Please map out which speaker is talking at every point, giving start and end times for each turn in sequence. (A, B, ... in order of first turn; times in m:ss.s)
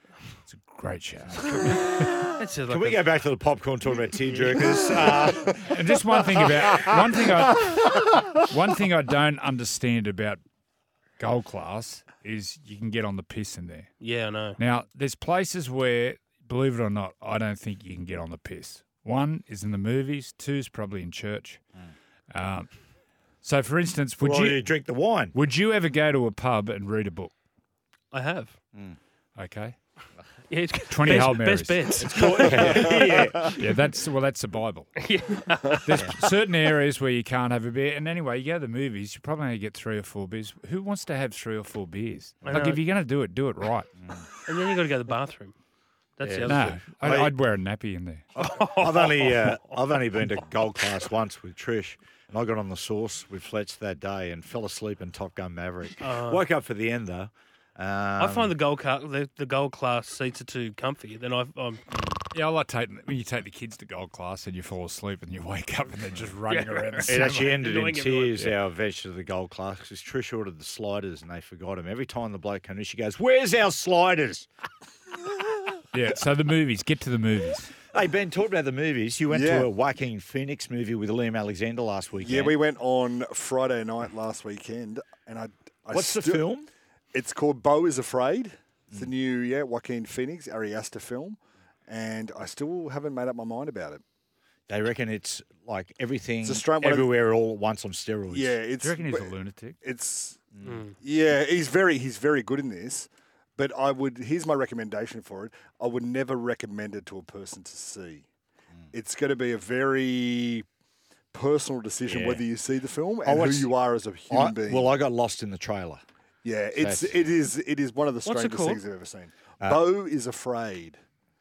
0:00.5-0:02.2 A
0:01.6-0:02.1 B
0:02.4-0:03.0 C
0:02.6-0:05.7 B
0:04.3-0:05.1 C
0:05.5-0:10.4 A
0:11.2-0:13.9 A
0:14.0-0:14.6 C
0:14.6-0:21.6 A
0:22.3-0:22.7 A
0:23.4-0:24.7 A
0:24.2-0:25.4 B
0:25.3-0:27.3 A
0:28.1-0:28.6 C
0:29.4-0:29.8 A
0:30.5-0:33.6 C
0:30.9-0:35.1 A
0:32.0-0:33.5 B
0:35.0-0:36.1 C
0:35.8-0:43.9 A
0:42.4-0:42.7 B
0:42.4-0:42.8 C
0:44.0-0:44.3 B
0:44.4-0:45.5 C
0:46.2-0:46.8 C
0:46.2-0:47.4 B
0:46.4-0:48.2 A
0:48.4-0:49.6 C
0:48.7-0:58.5 B
0:56.0-0:56.4 C
0:58.2-1:02.2 C
1:02.3-1:07.5 A
1:06.4-1:08.4 C
1:07.0-1:14.5 B
1:15.9-1:17.7 A
1:17.9-1:22.6 B
1:19.3-1:19.7 D
1:22.2-1:26.4 D
1:25.9-1:26.7 B
1:27.1-1:34.0 D
1:34.7-1:38.6 B
1:36.4-1:37.1 D
1:38.3-1:40.4 D
1:38.8-1:39.8 A
1:40.5-1:40.8 B
1:40.6-1:40.9 C
1:41.0-1:48.2 D
1:48.9-1:50.6 D
1:51.3-1:54.9 D
1:52.0-1:52.4 B
1:53.2-1:53.7 B
1:54.3-1:56.0 B
1:56.4-2:01.0 D
1:56.7-1:57.2 B
1:58.2-1:58.8 C
1:59.6-1:59.9 B